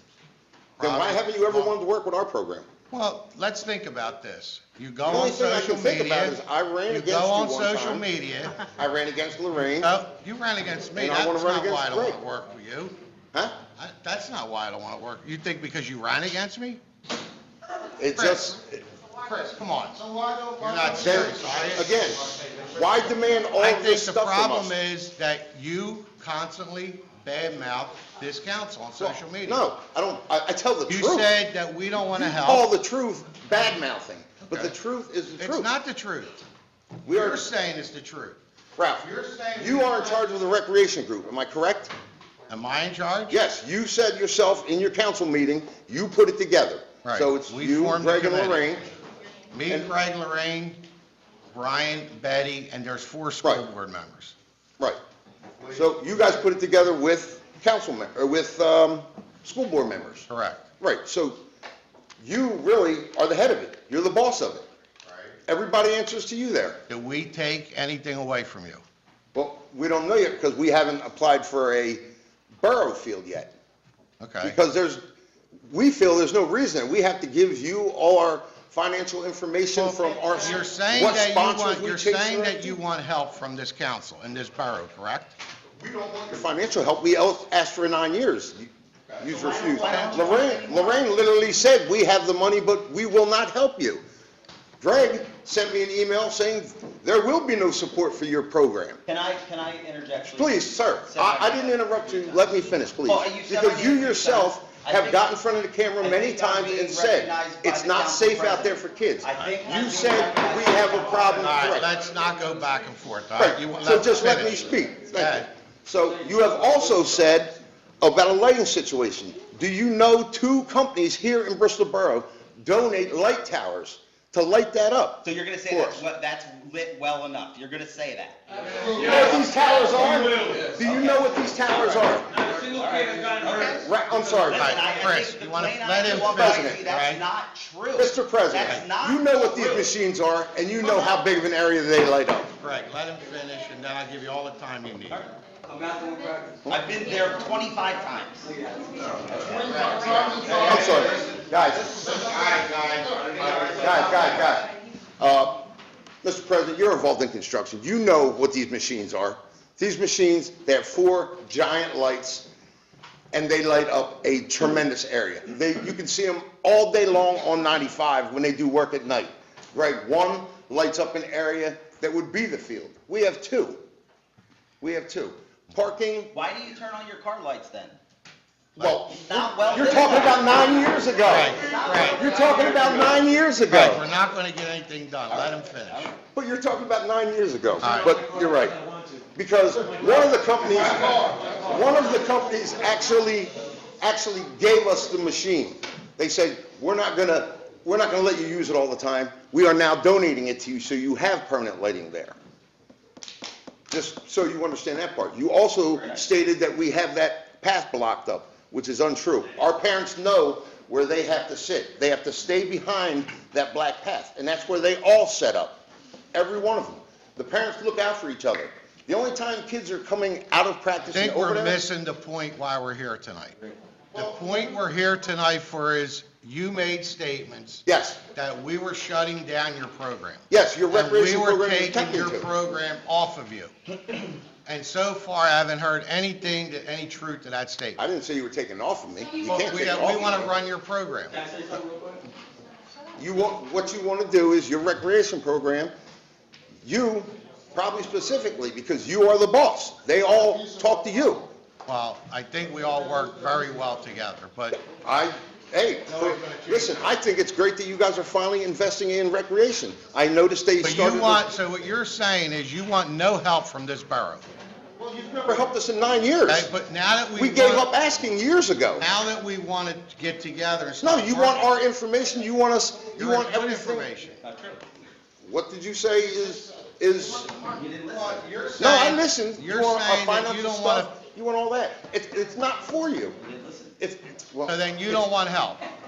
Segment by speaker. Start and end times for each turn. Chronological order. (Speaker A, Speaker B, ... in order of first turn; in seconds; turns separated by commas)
Speaker A: 0.8-1.7, Speaker B: 0.8-2.7, Speaker A: 2.9-8.6, Speaker B: 5.0-8.0, Speaker B: 8.6-9.9, Speaker A: 9.8-12.9, Speaker B: 10.9-12.2, Speaker A: 13.8-16.8, Speaker B: 17.9-18.8, Speaker A: 18.1-18.6, Speaker A: 19.2-21.9, Speaker B: 21.0-24.7, Speaker A: 23.6-29.6, Speaker B: 29.0-31.3, Speaker A: 30.9-32.7, Speaker B: 32.1-35.7, Speaker A: 34.4-34.7, Speaker A: 35.4-36.4, Speaker B: 37.0-37.4, Speaker A: 37.1-38.4, Speaker B: 38.8-41.9, Speaker A: 39.0-40.4, Speaker A: 42.5-43.4, Speaker B: 43.3-49.0, Speaker A: 47.0-48.7, Speaker A: 49.5-50.8, Speaker A: 51.5-54.3, Speaker B: 55.7-60.3, Speaker A: 60.3-60.6, Speaker B: 60.8-61.4, Speaker B: 62.2-64.7, Speaker A: 65.1-65.3, Speaker B: 65.5-66.8, Speaker A: 66.9-68.8, Speaker B: 69.3-72.0, Speaker B: 72.6-73.5, Speaker A: 74.2-74.6, Speaker B: 74.4-75.0, Speaker B: 75.7-82.8, Speaker A: 79.7-85.3, Speaker B: 85.8-94.0, Speaker C: 89.2-91.1, Speaker A: 89.7-90.2, Speaker B: 94.8-99.0, Speaker C: 99.0-105.3, Speaker B: 100.3-111.9, Speaker C: 106.0-111.6, Speaker A: 111.3-115.5, Speaker B: 113.3-126.0, Speaker C: 125.2-129.4, Speaker D: 128.7-130.7, Speaker B: 128.9-132.3, Speaker C: 130.5-139.9, Speaker D: 132.4-133.9, Speaker B: 133.8-134.9, Speaker A: 134.5-137.2, Speaker B: 136.1-136.8, Speaker B: 137.9-142.5, Speaker A: 142.6-145.3, Speaker C: 145.1-145.8, Speaker D: 145.7-146.6, Speaker B: 146.7-146.9, Speaker C: 146.7-151.1, Speaker D: 148.5-150.7, Speaker A: 149.5-151.2, Speaker B: 150.5-152.3, Speaker A: 152.0-154.6, Speaker D: 153.3-153.8, Speaker B: 153.4-155.6, Speaker B: 156.2-162.5, Speaker B: 163.3-173.8, Speaker B: 174.8-176.3, Speaker C: 176.3-178.0, Speaker A: 178.8-179.0, Speaker B: 178.8-184.0, Speaker C: 179.2-183.3, Speaker A: 181.2-182.4, Speaker A: 183.7-186.1, Speaker C: 185.3-186.1, Speaker B: 186.3-188.8, Speaker A: 187.8-188.2, Speaker B: 189.3-202.3, Speaker B: 203.9-221.8, Speaker C: 205.9-206.2, Speaker A: 221.1-223.6, Speaker B: 224.1-224.8, Speaker A: 224.1-233.7, Speaker B: 227.8-228.2, Speaker B: 230.5-232.5, Speaker A: 234.6-238.0, Speaker B: 238.0-240.5, Speaker A: 239.4-241.4, Speaker C: 241.3-242.3, Speaker B: 243.2-245.9, Speaker B: 246.8-251.5, Speaker A: 251.8-254.8, Speaker B: 255.0-261.4, Speaker A: 256.1-257.1, Speaker A: 260.8-264.5, Speaker B: 265.0-266.7, Speaker A: 266.5-267.9, Speaker B: 267.3-269.1, Speaker A: 269.0-271.6, Speaker B: 271.0-274.1, Speaker A: 273.1-274.4, Speaker C: 274.4-274.9, Speaker B: 275.4-277.6, Speaker C: 277.6-278.5, Speaker A: 278.1-281.1, Speaker B: 278.8-283.4, Speaker C: 283.4-284.0, Speaker B: 284.0-285.2, Speaker A: 284.7-285.8